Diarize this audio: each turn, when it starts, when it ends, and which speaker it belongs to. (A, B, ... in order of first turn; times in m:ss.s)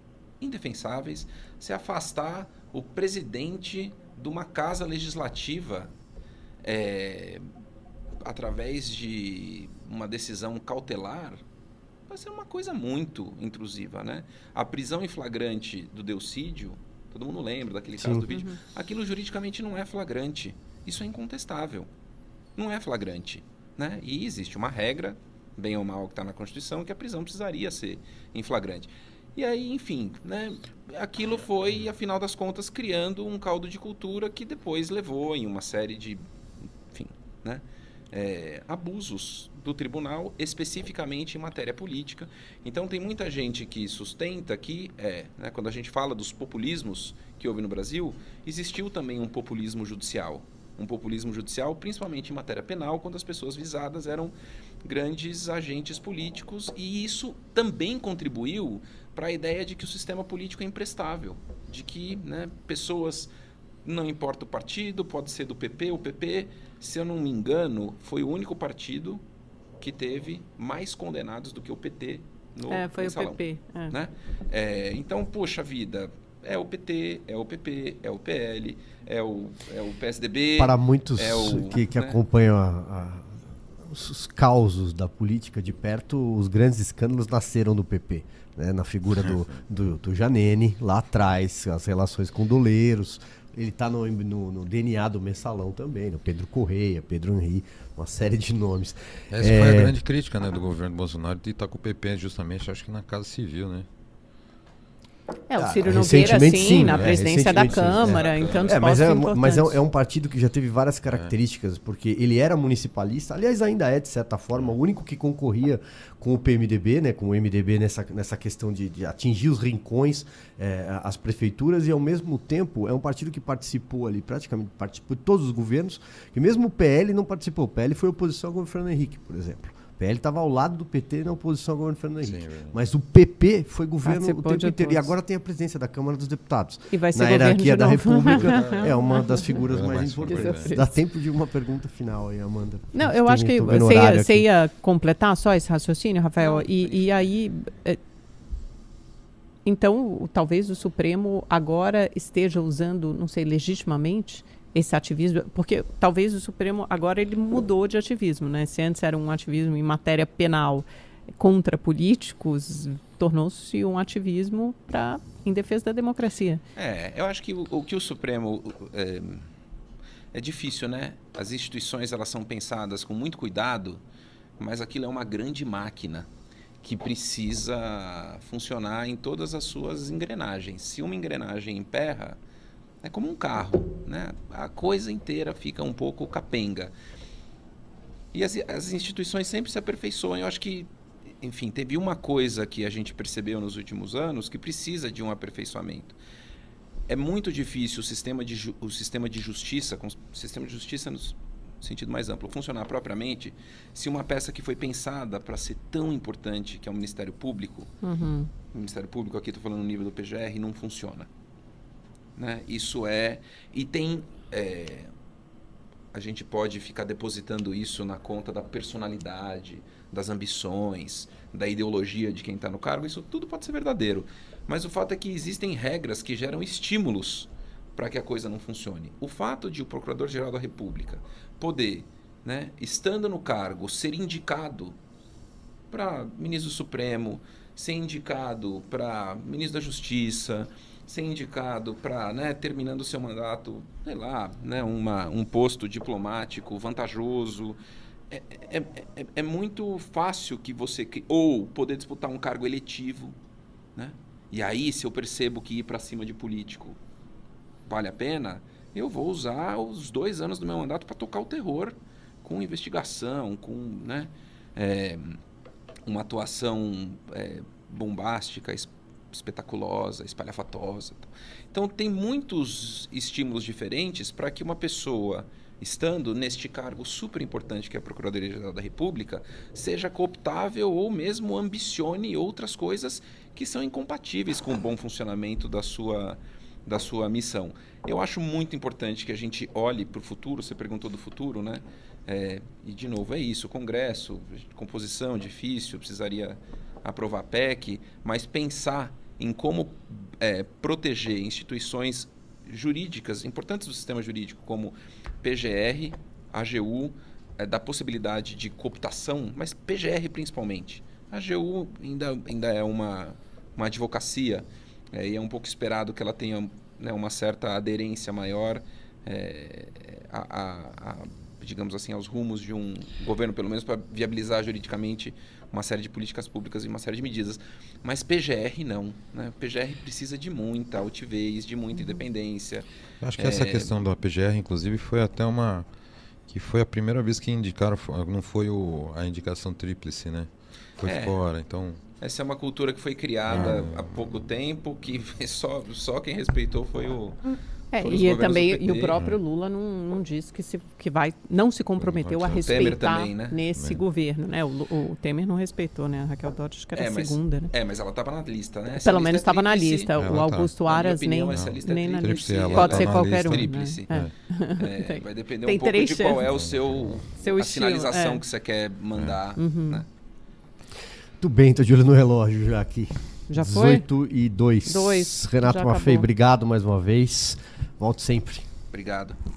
0:00.4-0:05.9 A
0:06.6-0:07.5 A
0:08.2-0:11.4 A
0:12.1-0:21.9 A
0:18.0-0:18.3 B
0:18.3-0:18.6 C
0:22.6-0:36.2 A
0:36.9-0:54.3 A
0:54.8-1:03.3 A
1:03.8-1:09.2 A
1:09.8-1:22.2 A
1:12.7-1:14.0 C
1:20.6-1:40.0 B
1:39.3-1:43.9 D
1:45.5-1:49.8 C
1:45.6-2:24.5 B
1:46.4-1:48.7 D
2:12.2-2:12.8 D
2:14.0-2:15.1 C
2:16.9-2:19.6 C
2:18.2-2:20.7 D
2:20.3-2:20.9 C
2:22.9-2:28.0 C
2:26.4-2:27.3 A
2:29.6-2:40.9 C
2:41.4-2:46.6 C
2:46.8-2:49.5 A
2:50.3-2:54.0 A
2:54.6-2:56.3 A
2:56.8-3:02.4 A
3:03.0-3:06.9 A
3:08.3-3:10.9 A
3:11.4-3:16.2 A
3:17.1-3:27.9 A
3:28.0-3:28.5 C
3:28.7-3:31.3 A
3:32.4-3:35.1 A
3:36.1-3:55.0 A
3:55.9-4:07.8 A
4:08.3-4:13.4 A
4:14.0-4:17.0 A
4:17.9-4:25.4 A
4:26.0-5:33.9 A
5:33.2-5:35.9 D
5:36.5-5:40.5 D
5:41.0-5:42.0 D
5:41.0-5:41.4 A
5:42.2-5:49.2 A
5:43.5-5:44.3 D
5:47.9-5:57.7 C
5:52.0-5:53.0 D
5:52.5-5:53.6 A
5:53.8-5:54.0 D
5:57.0-6:00.2 A
5:59.0-6:06.5 C
6:00.2-6:00.7 D
6:00.8-6:10.1 A
6:01.5-6:04.3 D
6:07.4-6:08.4 C
6:09.6-6:10.0 C
6:11.4-6:18.7 B
6:13.5-6:14.1 C
6:14.9-6:16.3 C
6:18.9-6:19.4 A